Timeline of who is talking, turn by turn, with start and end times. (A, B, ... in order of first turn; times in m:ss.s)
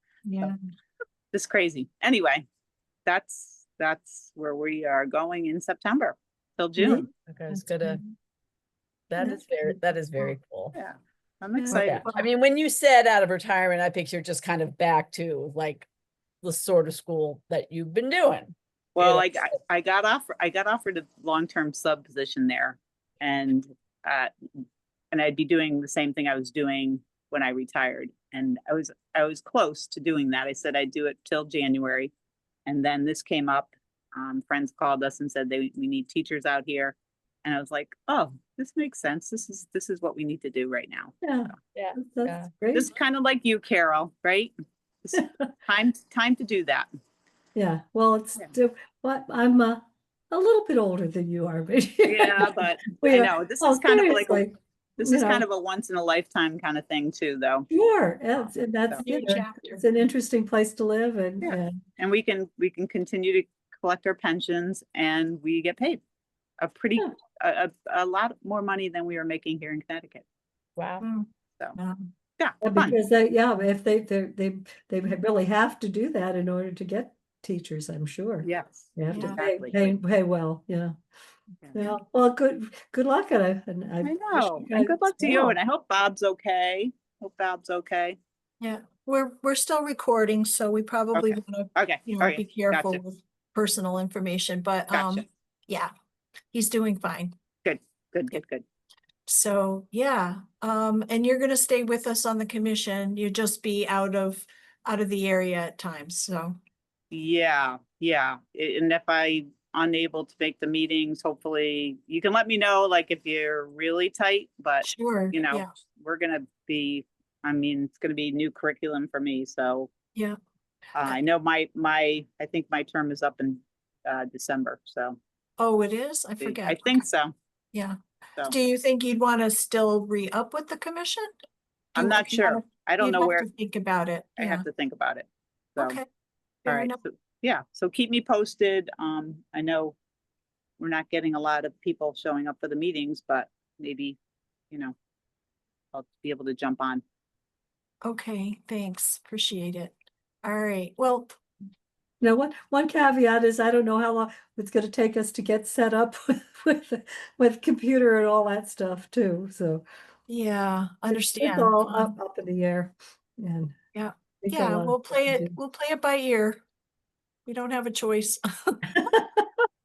0:00.2-0:00.6 A
0:01.3-0:02.4 B
0:03.1-0:07.1 B
0:06.8-0:08.1 A
0:07.3-0:08.0 C
0:09.1-0:10.7 C
0:09.2-0:10.4 A
0:10.7-0:12.1 B
0:11.6-0:12.2 A
0:11.7-0:15.9 C
0:16.4-0:19.4 C
0:19.0-0:24.3 B
0:25.1-0:32.1 B
0:32.7-0:41.2 B
0:41.2-0:42.9 D
0:41.8-0:42.5 C
0:42.7-0:44.5 B
0:45.0-0:46.9 B
0:45.2-0:45.5 D
0:47.6-0:55.4 D
0:52.1-0:54.5 B
0:55.0-0:57.7 B
0:57.7-1:01.8 D
0:58.4-0:59.1 B
0:59.0-0:59.8 A
1:01.4-1:06.0 B
1:06.6-1:10.2 B
1:10.8-1:11.0 C
1:11.0-1:12.0 A
1:12.4-1:13.0 B
1:12.6-1:20.9 D
1:18.4-1:20.0 B
1:19.1-1:19.4 A
1:21.6-1:22.0 B
1:21.7-1:25.6 D
1:24.0-1:28.2 B
1:28.6-1:35.9 A
1:31.2-1:33.0 B
1:34.9-1:35.2 B
1:36.5-1:37.3 A
1:37.6-1:38.6 B
1:39.3-1:46.6 A
1:47.1-1:59.9 B
1:54.8-1:55.7 A
2:01.0-2:05.2 B
2:05.6-2:07.1 A
2:06.4-2:07.3 B
2:07.7-2:11.3 A
2:12.0-2:13.5 B
2:12.0-2:14.7 A
2:14.4-2:16.0 B
2:15.8-2:16.1 A
2:16.7-2:17.0 A
2:16.7-2:20.0 B
2:20.8-2:24.2 B
2:25.9-2:27.0 B
2:28.0-2:31.4 A
2:32.2-2:39.9 D
2:40.3-2:42.1 A
2:41.1-2:43.8 D
2:44.0-2:46.6 A
2:44.4-2:45.6 D
2:47.5-2:48.9 A
2:49.0-2:49.5 D